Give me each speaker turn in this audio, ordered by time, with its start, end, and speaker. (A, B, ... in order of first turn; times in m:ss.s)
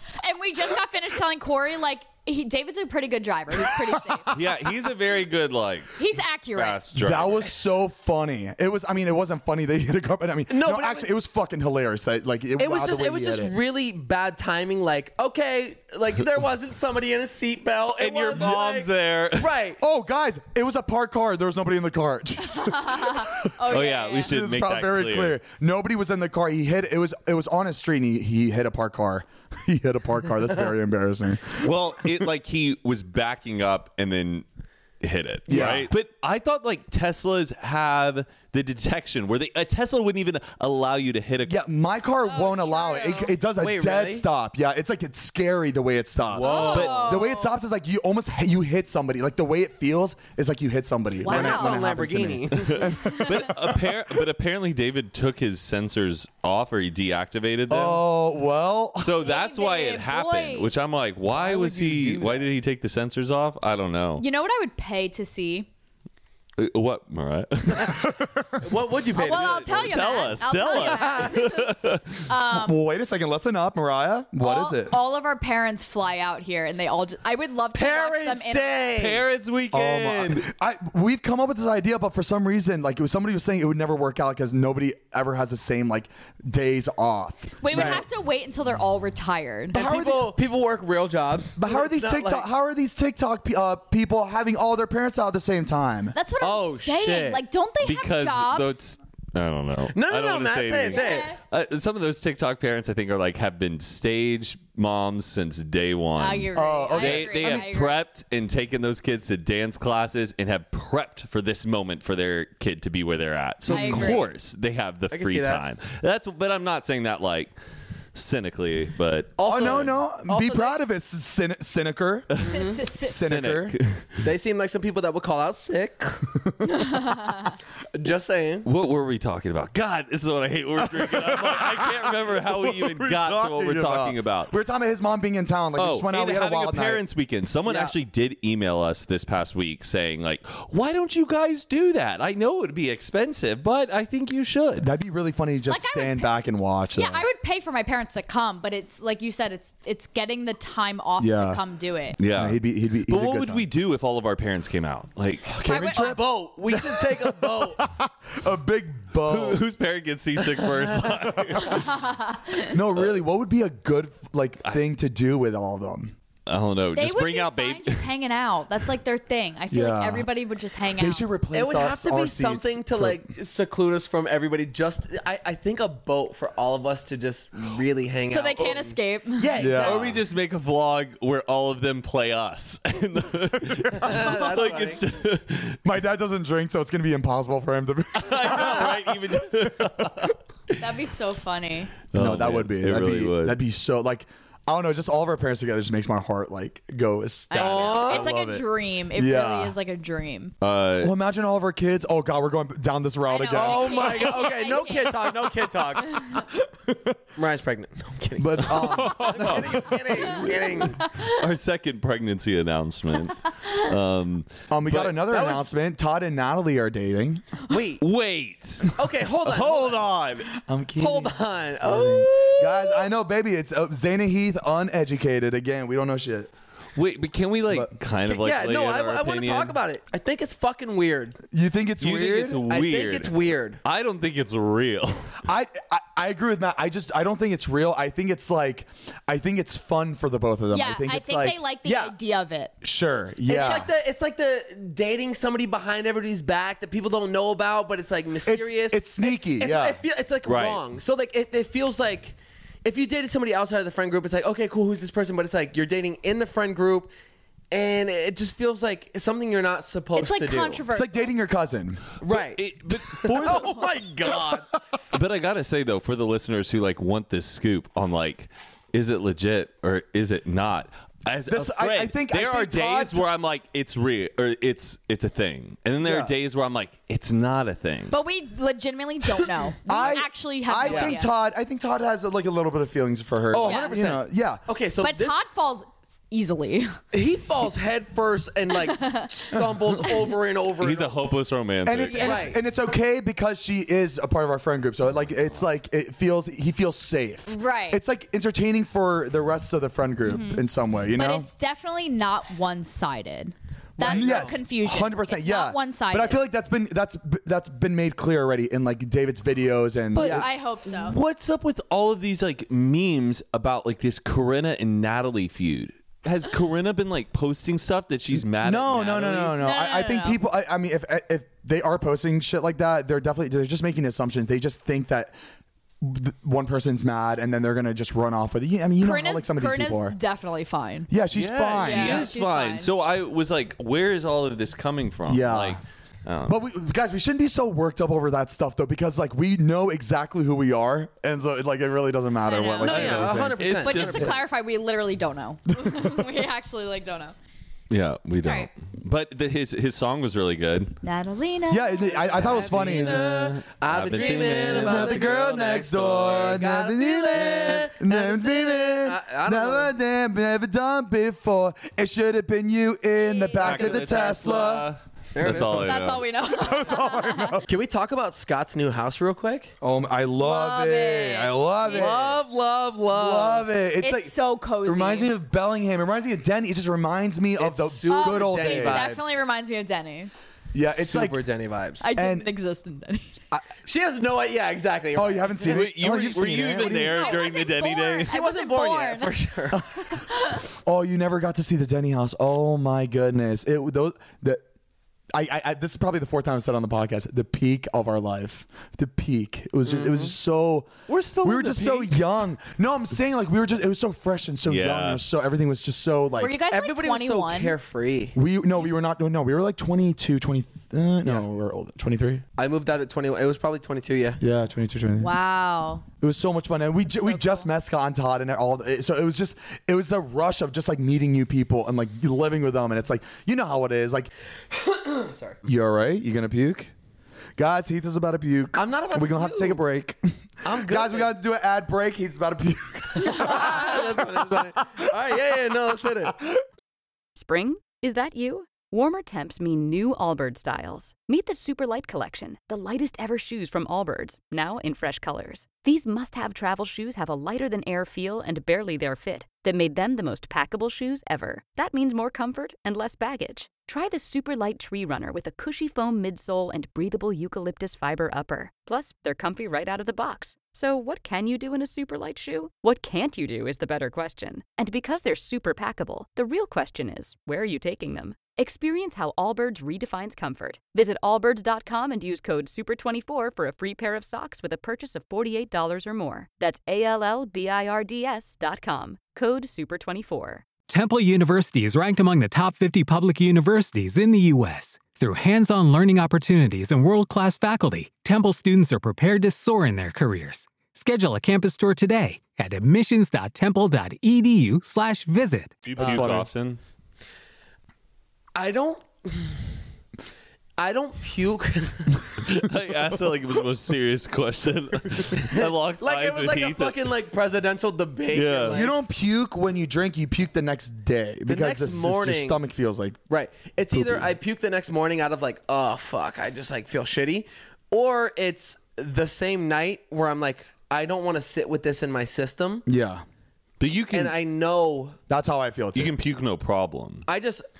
0:00.2-0:04.3 A
0:03.5-0:04.4 B
0:04.3-0:06.0 C
0:06.0-0:06.8 A
0:06.5-0:07.5 C
0:07.0-0:13.5 B
0:10.5-0:11.1 D
0:12.6-0:19.8 D
0:18.0-0:19.5 C
0:19.8-0:31.7 B
0:22.6-0:24.4 A
0:23.7-0:25.4 C
0:31.6-0:34.4 C
0:35.0-0:41.6 C
0:35.5-0:35.9 B
0:41.4-0:54.0 B
0:42.3-0:43.3 A
0:43.6-0:44.2 D
0:46.3-0:47.2 C
0:46.4-0:47.1 D
0:46.4-0:47.6 A
0:51.2-0:51.9 A
0:51.3-0:52.9 D
0:52.5-0:58.1 C
0:53.0-0:53.5 A
0:57.7-0:59.2 B
0:59.0-1:04.2 C
0:59.2-1:00.7 A
1:01.3-1:02.5 D
1:04.2-1:05.7 A
1:06.6-1:08.2 C
1:07.8-1:08.6 B
1:08.6-1:11.4 D
1:09.1-1:12.8 A
1:09.6-1:12.2 C
1:12.5-1:15.0 B
1:14.4-1:18.9 A
1:17.7-1:19.2 D
1:19.0-1:20.5 C
1:19.7-1:28.0 B
1:27.6-1:29.8 A
1:27.7-1:28.1 D
1:29.7-1:30.4 B
1:29.7-1:32.5 D
1:31.6-1:36.2 B
1:36.1-1:38.8 A
1:36.4-1:37.4 D
1:37.8-1:57.5 C
1:39.9-1:41.3 D
1:40.9-1:41.4 A
1:46.2-1:48.0 A
1:46.6-1:47.7 B
1:53.7-1:54.1 D
1:53.7-1:54.3 A
1:55.1-1:55.6 D
1:58.2-2:00.0 C
1:59.4-2:00.8 D
1:59.4-2:02.3 B
2:02.3-2:04.2 C
2:02.4-2:02.8 D
2:02.4-2:03.3 A
2:03.0-2:03.8 B
2:04.2-2:06.3 D
2:06.3-2:07.0 B
2:06.7-2:07.5 A
2:07.9-2:08.7 D
2:08.6-2:14.5 C
2:10.8-2:17.0 B
2:15.8-2:24.9 C
2:17.7-2:18.0 D
2:24.8-2:27.3 B
2:25.7-2:26.3 A
2:27.0-2:32.2 A
2:31.2-2:31.6 B
2:32.2-2:33.7 B
2:32.2-2:35.6 C
2:35.5-2:39.6 B
2:35.6-2:36.2 A
2:36.0-2:37.8 D
2:39.3-2:42.0 C
2:40.8-2:41.1 D
2:41.4-2:41.7 B
2:41.8-2:42.8 A
2:42.7-2:46.1 B
2:46.5-2:48.1 C
2:46.9-2:51.3 A
2:49.7-2:50.3 B
2:51.0-2:53.2 B
2:51.5-3:00.2 D
2:58.3-2:59.7 A
2:59.6-3:00.2 B
2:59.8-3:05.8 C
3:03.9-3:05.0 D
3:05.8-3:10.3 B
3:08.2-3:10.4 C
3:10.8-3:11.9 A
3:12.1-3:13.6 C
3:12.2-3:19.8 B
3:17.5-3:20.5 A
3:17.6-3:18.3 D
3:20.6-3:21.1 C
3:21.0-3:24.5 B
3:23.3-3:25.2 A
3:23.5-3:26.2 D
3:26.4-3:27.2 B
3:27.4-3:31.1 D
3:28.4-3:30.6 B
3:28.8-3:29.9 C
3:31.0-3:31.4 A
3:31.2-3:35.2 C
3:34.7-3:37.5 B
3:35.2-3:35.7 D
3:37.7-3:38.0 D
3:38.0-3:40.5 C
3:39.0-3:40.1 D
3:40.6-3:46.5 B
3:41.0-3:42.9 D
3:47.0-3:49.8 C
3:48.3-3:51.4 D
3:51.5-3:52.6 B
3:52.0-3:55.4 C
3:52.7-3:53.8 D
3:55.4-4:01.6 B
4:00.7-4:02.7 A
4:01.8-4:02.2 D
4:02.8-4:03.9 B
4:03.4-4:17.1 D
4:08.4-4:10.0 B
4:10.4-4:10.8 C
4:17.7-4:20.8 D
4:20.2-4:21.3 A
4:20.9-4:22.0 B
4:22.2-4:24.7 D
4:22.3-4:23.9 C
4:25.1-4:38.2 C
4:31.5-4:33.3 B
4:36.0-4:36.3 B
4:38.1-4:41.3 A
4:39.9-4:44.6 B
4:40.8-4:41.2 D
4:43.5-4:45.4 D
4:43.6-4:43.9 A
4:45.0-4:47.0 A
4:47.1-4:51.2 D
4:48.8-4:49.3 A
4:50.8-4:52.4 C
4:51.8-5:01.5 B
4:52.1-4:52.5 A
4:52.2-4:52.6 D
4:57.5-4:58.0 A
5:00.3-5:06.4 A
5:04.0-5:10.5 B
5:04.0-5:04.6 D
5:10.2-5:19.6 C
5:10.2-5:11.2 A
5:18.3-5:25.4 B
5:19.6-5:20.4 A
5:26.0-5:30.2 B
5:29.0-5:31.1 A
5:31.1-5:32.3 B
5:31.3-5:36.6 C
5:31.8-5:32.9 A
5:35.3-5:35.8 B
5:36.5-5:43.8 B
5:42.4-5:43.2 A
5:42.8-5:44.4 D
5:42.9-5:44.4 C
5:43.8-5:47.3 A
5:45.8-5:46.2 B
5:47.9-5:51.0 C
5:48.4-5:48.7 A
5:51.0-5:52.4 A
5:51.7-5:53.3 B
5:52.4-5:56.7 C
5:52.4-5:59.9 D
5:54.2-6:04.9 B
5:57.3-5:57.8 C
6:03.1-6:04.0 A
6:03.6-6:06.3 C
6:03.7-6:04.3 D
6:05.3-6:06.0 D
6:05.7-6:07.6 A
6:06.5-6:07.7 B
6:07.7-6:09.7 D
6:09.8-6:12.6 B
6:10.4-6:12.2 A
6:11.9-6:13.7 D
6:13.1-6:19.2 B
6:14.0-6:15.3 A
6:17.6-6:19.4 D
6:18.1-6:20.3 A
6:20.7-6:21.4 B
6:21.0-6:22.1 D
6:22.0-6:23.4 A
6:22.2-6:22.5 B
6:23.8-6:25.8 D
6:25.1-6:27.4 B
6:25.6-6:28.3 C
6:26.9-6:29.4 A
6:28.3-6:29.9 D
6:29.7-6:30.1 B
6:30.0-6:30.6 A
6:30.8-6:34.6 B
6:35.3-6:40.9 B
6:39.9-6:40.3 D
6:41.1-6:42.2 C
6:41.4-6:46.6 B
6:44.7-6:45.2 C
6:46.4-6:47.8 A
6:46.7-6:48.4 D
6:48.4-6:52.4 B
6:52.6-6:54.4 D
6:54.4-6:55.3 B
6:55.2-6:56.1 A
6:56.2-7:04.3 B
6:57.1-6:57.7 A
7:04.7-7:05.6 D
7:05.6-7:06.9 B
7:07.6-7:15.0 B
7:08.8-7:09.8 D
7:10.6-7:11.3 D
7:13.3-7:16.4 D
7:17.4-8:00.7 E
8:00.9-8:15.9 F
8:15.8-8:16.8 C
8:16.0-8:16.5 B
8:16.0-8:16.4 D
8:18.6-8:19.7 D
8:20.8-8:22.4 D
8:22.6-8:27.1 C
8:25.4-8:28.9 D
8:28.3-8:28.9 C
8:28.7-8:33.2 B
8:31.5-8:32.6 D
8:33.3-8:42.8 D
8:33.9-8:34.3 B
8:42.9-8:43.2 B
8:43.8-8:44.4 C
8:44.1-8:45.2 D
8:45.3-8:46.1 B
8:46.0-8:47.3 C
8:47.3-8:47.7 D